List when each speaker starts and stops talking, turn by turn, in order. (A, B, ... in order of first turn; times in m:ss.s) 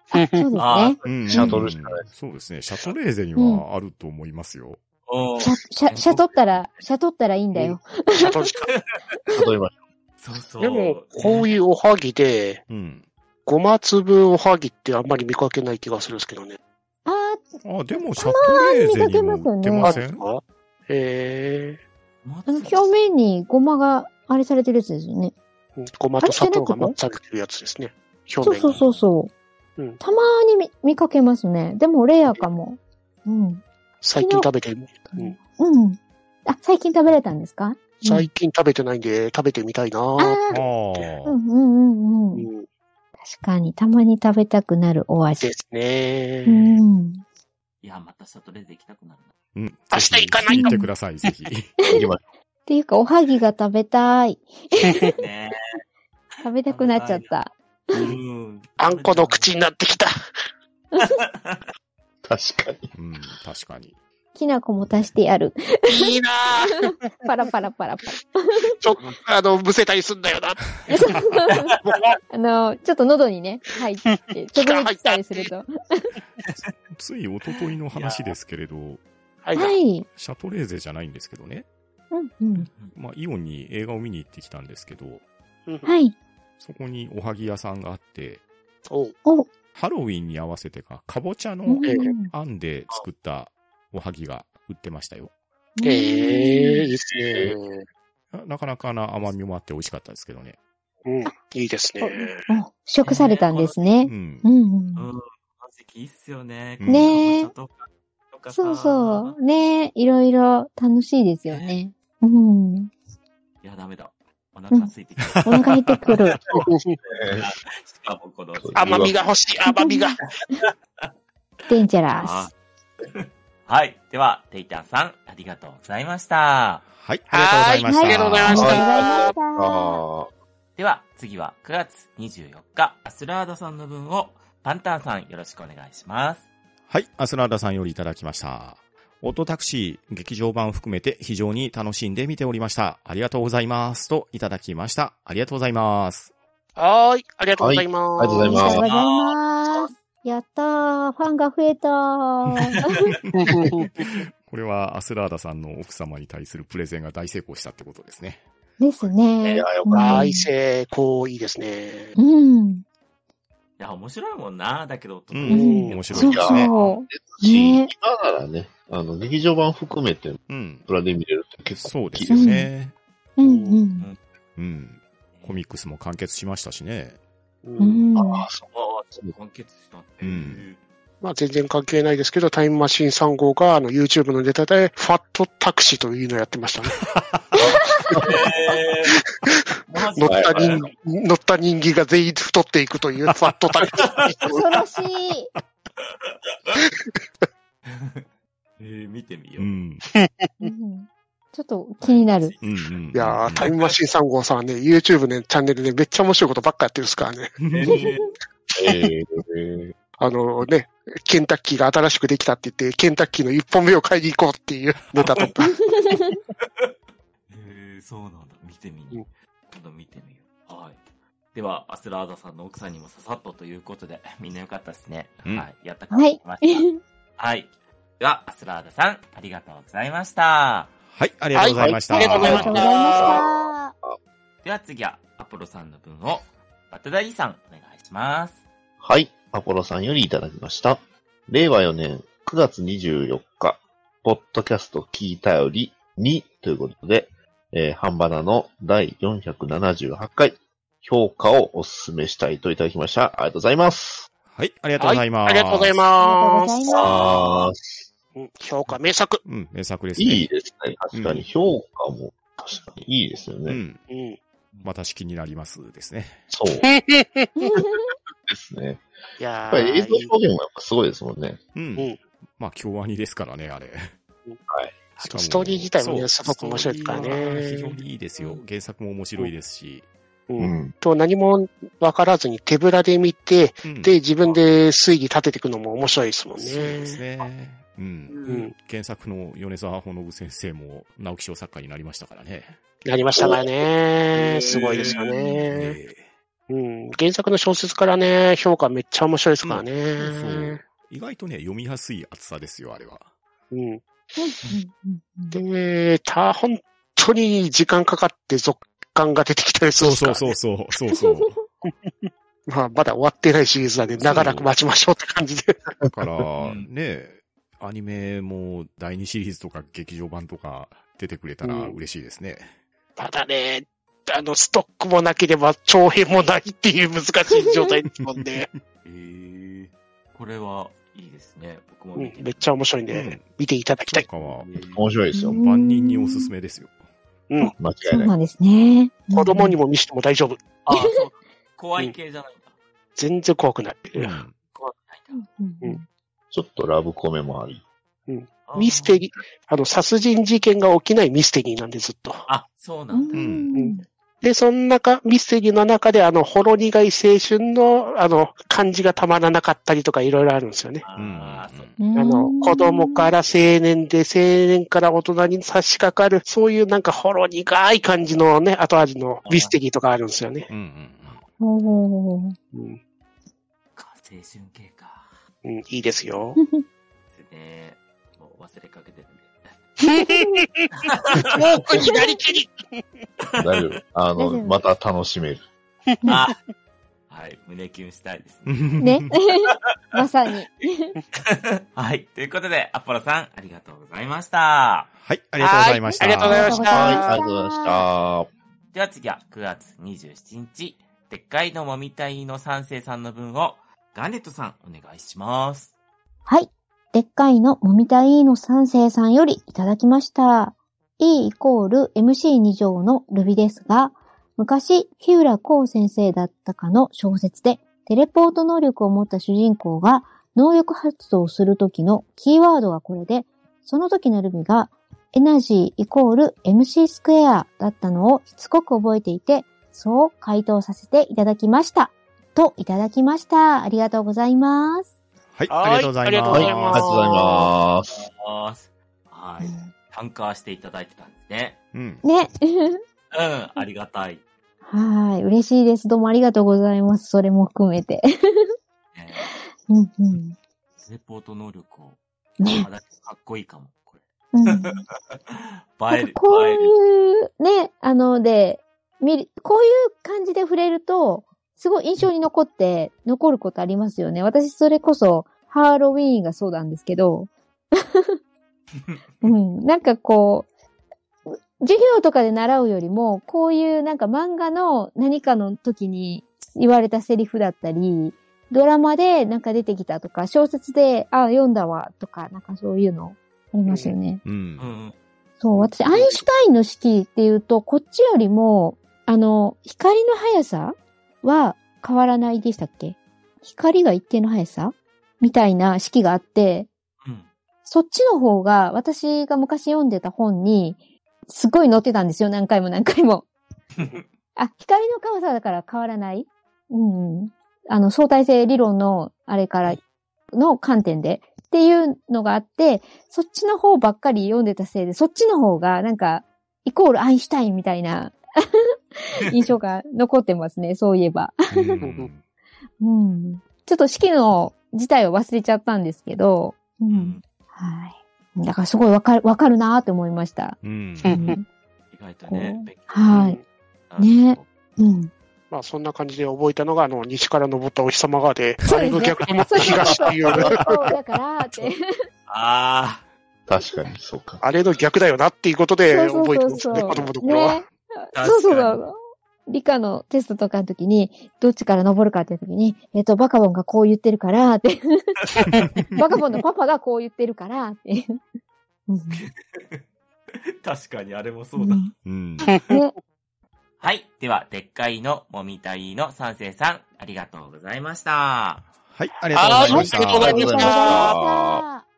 0:00.1-0:00.5 A
0:00.3-0:01.0 B
0:00.6-0:01.6 C
0:01.0-0:04.8 D
0:01.3-0:02.0 E
0:03.4-0:03.6 B
0:05.1-0:06.6 C
0:05.4-0:08.5 B
0:07.5-0:08.7 A
0:08.7-0:09.0 C
0:09.3-0:09.8 E
0:10.2-0:11.5 C
0:10.6-0:12.6 A
0:12.7-0:13.0 D
0:13.4-0:16.6 A
0:17.0-0:20.0 B
0:17.6-0:20.2 D
0:19.8-0:21.8 A
0:22.2-0:22.9 C
0:22.5-0:25.3 B
0:25.8-0:28.8 A
0:26.2-0:26.9 B
0:28.4-0:29.3 B
0:28.6-0:29.0 C
0:30.0-0:33.6 B
0:34.0-0:35.4 A
0:34.2-0:34.5 B
0:35.1-0:38.3 B
0:38.0-0:41.1 A
0:40.2-0:40.6 B
0:40.5-0:41.4 D
0:41.2-0:42.5 B
0:42.3-0:42.6 A
0:43.2-0:45.5 B
0:45.4-0:46.7 A
0:46.4-0:47.2 B
0:47.8-0:49.3 C
0:49.5-0:51.7 D
0:49.9-0:50.7 A
0:50.5-0:50.9 B
0:51.8-0:52.1 B
0:51.9-0:52.2 E
0:52.7-0:55.1 B
0:55.2-0:55.6 C
0:56.4-0:58.1 B
0:56.6-0:57.3 C
0:57.9-0:59.5 C
0:58.8-1:00.1 A
1:01.0-1:01.6 C
1:02.2-1:02.9 E
1:02.9-1:04.0 D
1:04.3-1:08.8 B
1:05.9-1:06.9 A
1:08.8-1:11.2 A
1:10.9-1:11.7 B
1:11.8-1:12.2 A
1:12.3-1:16.1 B
1:14.1-1:15.5 A
1:16.9-1:19.0 D
1:17.9-1:18.3 C
1:19.4-1:19.8 A
1:19.5-1:20.1 B
1:20.1-1:21.6 D
1:22.1-1:22.8 B
1:22.6-1:22.9 C
1:22.8-1:25.2 D
1:25.7-1:25.9 A
1:25.8-1:26.2 B
1:26.6-1:28.4 D
1:28.9-1:29.2 A
1:29.2-1:29.5 B
1:29.7-1:35.3 D
1:31.7-1:32.3 B
1:31.8-1:32.1 A
1:35.8-1:36.9 B
1:35.8-1:37.8 A
1:37.3-1:37.5 E
1:38.3-1:40.6 D
1:41.0-1:42.4 A
1:42.0-1:45.1 B
1:43.0-1:43.8 C
1:44.0-1:44.4 D
1:44.9-1:49.4 C
1:46.8-1:47.2 D
1:46.9-1:47.5 B
1:48.5-1:52.9 B
1:51.5-1:51.8 C
1:53.6-1:59.2 C
1:55.3-1:55.7 D
1:55.4-1:56.4 B
1:56.5-1:57.0 A
1:57.1-1:57.5 E
1:58.6-1:59.1 E
1:58.8-2:00.2 A
1:59.7-2:00.2 B
2:00.6-2:01.1 C
2:01.7-2:02.5 B
2:02.1-2:06.8 C
2:06.9-2:08.7 D
2:07.3-2:09.3 A
2:07.9-2:10.0 B
2:08.5-2:10.3 E
2:10.8-2:16.5 C
2:16.9-2:26.3 D
2:26.8-2:28.6 A
2:27.6-2:28.8 E
2:28.3-2:33.1 B
2:28.5-2:29.9 C
2:33.3-2:34.1 A
2:34.0-2:38.4 D
2:38.8-2:40.5 B
2:39.4-2:40.3 E
2:39.9-2:42.1 A
2:42.2-2:42.8 B
2:43.8-2:47.0 C
2:45.3-2:46.7 D
2:45.5-2:47.9 B
2:45.5-2:46.0 A
2:46.1-2:52.5 E
2:50.5-2:50.8 D
2:51.8-2:52.9 D
2:52.3-2:52.7 B
2:53.4-2:54.1 B
2:53.4-2:53.8 A
2:54.6-2:57.2 D
2:55.3-2:55.6 C
2:57.6-2:58.0 A
2:57.8-2:58.5 B
2:58.1-2:59.3 E
2:58.7-3:00.8 C
3:00.2-3:00.6 D
3:01.2-3:07.0 A
3:07.0-3:07.5 D
3:07.6-3:08.3 B
3:08.1-3:09.2 C
3:09.9-3:10.9 C
3:10.2-3:14.6 A
3:10.2-3:10.8 E
3:14.0-3:14.3 C
3:14.4-3:15.5 B
3:16.0-3:16.8 C
3:17.8-3:18.2 C
3:18.8-3:19.7 C
3:19.6-3:20.0 D
3:20.1-3:20.7 A
3:20.6-3:22.6 B
3:22.0-3:22.9 C
3:22.6-3:23.7 D
3:23.1-3:27.5 A
3:23.6-3:23.9 C
3:27.6-3:28.1 D
3:27.7-3:28.3 C
3:28.0-3:28.3 B
3:28.8-3:29.9 E
3:30.2-3:35.7 A
3:35.2-3:35.5 C
3:35.6-3:36.3 B
3:36.1-3:36.9 C
3:37.5-3:41.0 C
3:41.5-3:50.9 C
3:46.1-3:47.0 B
3:51.1-3:52.8 D
3:51.5-3:53.4 A
3:52.2-3:53.9 B
3:52.4-3:54.2 E
3:54.6-3:58.6 C
3:59.0-4:14.3 E
4:14.5-4:16.1 D
4:15.0-4:17.6 A
4:16.2-4:17.3 B
4:16.9-4:17.8 E
4:18.3-4:19.4 A
4:19.4-4:20.5 D
4:20.2-4:23.8 E
4:21.1-4:21.5 D
4:23.7-4:24.0 D
4:24.1-4:24.4 A
4:24.8-4:26.4 D
4:26.5-4:26.9 E
4:26.8-4:27.7 A
4:27.6-4:28.0 B
4:28.4-4:29.0 E
4:29.4-4:30.3 A
4:29.7-4:31.6 E
4:31.7-4:34.1 D
4:34.7-4:35.0 E
4:35.2-4:40.1 D
4:35.2-4:38.0 A
4:40.5-4:47.2 A
4:40.6-4:40.9 E
4:43.8-4:44.2 D
4:46.6-4:52.8 D
4:48.3-4:48.6 C
4:48.5-4:48.7 A
4:53.0-4:56.0 A
4:54.4-4:55.3 C
4:55.7-4:56.2 D
4:56.7-5:00.8 A
4:59.6-5:03.3 D
5:03.7-5:04.0 A
5:04.4-5:05.6 B
5:05.5-5:10.6 A
5:10.0-5:11.6 D
5:11.2-5:11.4 B
5:11.8-5:15.9 A
5:14.2-5:14.7 D
5:16.1-5:22.7 D
5:16.6-5:16.9 C
5:21.6-5:22.0 A
5:23.2-5:28.7 A
5:28.2-5:28.8 D
5:29.0-5:32.7 C
5:32.2-5:34.2 A
5:33.1-5:33.5 D
5:34.1-5:34.7 D
5:34.3-5:35.0 C
5:34.9-5:35.6 E
5:35.3-5:36.5 B
5:35.4-5:37.0 D
5:37.6-5:39.8 B
5:37.8-5:38.3 E
5:39.3-5:40.6 A
5:40.8-5:42.7 C
5:40.9-5:41.1 B
5:43.2-5:44.4 A
5:44.2-5:44.6 D
5:44.8-5:45.4 C
5:45.3-5:46.0 B
5:46.5-5:47.8 E
5:48.3-5:52.4 A
5:48.6-5:49.2 C
5:52.5-5:53.4 C
5:53.1-5:54.0 B
5:53.3-5:53.7 D
5:53.7-6:01.0 A
6:01.0-6:01.9 C
6:01.1-6:02.0 D
6:02.0-6:03.3 B
6:02.1-6:10.7 A
6:09.4-6:09.7 C
6:10.7-6:11.4 D
6:11.6-6:12.6 B
6:12.7-6:13.0 A
6:14.0-6:15.4 C
6:15.6-6:16.6 A
6:16.6-6:16.8 B
6:17.3-6:19.7 C
6:20.0-6:20.9 A
6:20.2-6:20.6 B
6:21.0-6:21.6 C
6:21.4-6:23.2 A
6:22.0-6:22.3 B
6:23.4-6:23.9 C
6:23.6-6:25.6 E
6:24.4-6:24.8 B
6:26.1-6:26.4 A
6:26.2-6:26.6 C
6:27.3-6:29.7 C
6:28.6-6:29.3 D
6:29.0-6:31.2 B
6:31.4-6:35.1 C
6:35.2-6:36.9 D
6:35.6-6:37.4 A
6:36.0-6:38.0 B
6:36.8-6:38.5 E
6:38.9-6:45.9 C
6:46.4-7:15.1 B
7:15.5-7:17.1 D
7:15.7-7:17.7 A
7:16.5-7:18.2 E
7:18.1-7:21.8 C
7:19.6-7:19.9 B
7:21.9-7:22.2 D
7:22.2-7:23.0 B
7:23.3-7:24.4 C
7:24.9-7:28.3 B
7:29.1-7:29.5 C
7:29.4-7:30.6 B
7:31.0-7:36.9 C
7:32.6-7:32.9 B
7:34.5-7:35.0 B
7:36.1-7:48.3 B
7:49.0-7:49.5 C
7:49.4-7:50.7 B
7:51.5-8:04.4 B
8:03.9-8:04.2 A
8:04.4-8:04.9 D
8:04.8-8:05.1 C
8:05.6-8:16.9 B
8:06.1-8:06.4 A
8:17.2-8:17.5 C
8:17.8-8:23.5 B
8:24.0-8:24.2 C
8:24.6-8:30.0 B
8:30.5-8:42.0 B
8:41.7-8:42.4 D
8:42.0-8:42.3 A
8:43.0-8:51.6 B
8:47.1-8:47.4 C
8:50.8-8:51.5 D
8:51.2-8:51.6 A
8:52.1-8:54.7 C
8:52.5-8:53.6 B
8:53.3-8:53.6 A
8:54.2-8:55.3 B
8:55.7-9:00.8 A
8:58.8-9:02.0 B
9:02.5-9:03.2 C
9:03.7-9:04.6 E
9:04.6-9:07.8 A
9:06.1-9:09.2 B
9:06.9-9:07.2 C
9:08.3-9:09.0 C
9:09.7-9:15.4 B
9:15.7-9:16.2 D
9:16.2-9:18.4 B
9:19.1-9:19.4 B
9:19.3-9:22.1 C
9:21.8-9:22.1 B
9:22.2-9:22.8 D
9:22.7-9:22.9 A
9:24.0-9:28.9 C
9:29.0-9:30.6 D
9:29.5-9:31.3 A
9:29.9-9:32.0 B
9:29.9-9:31.8 E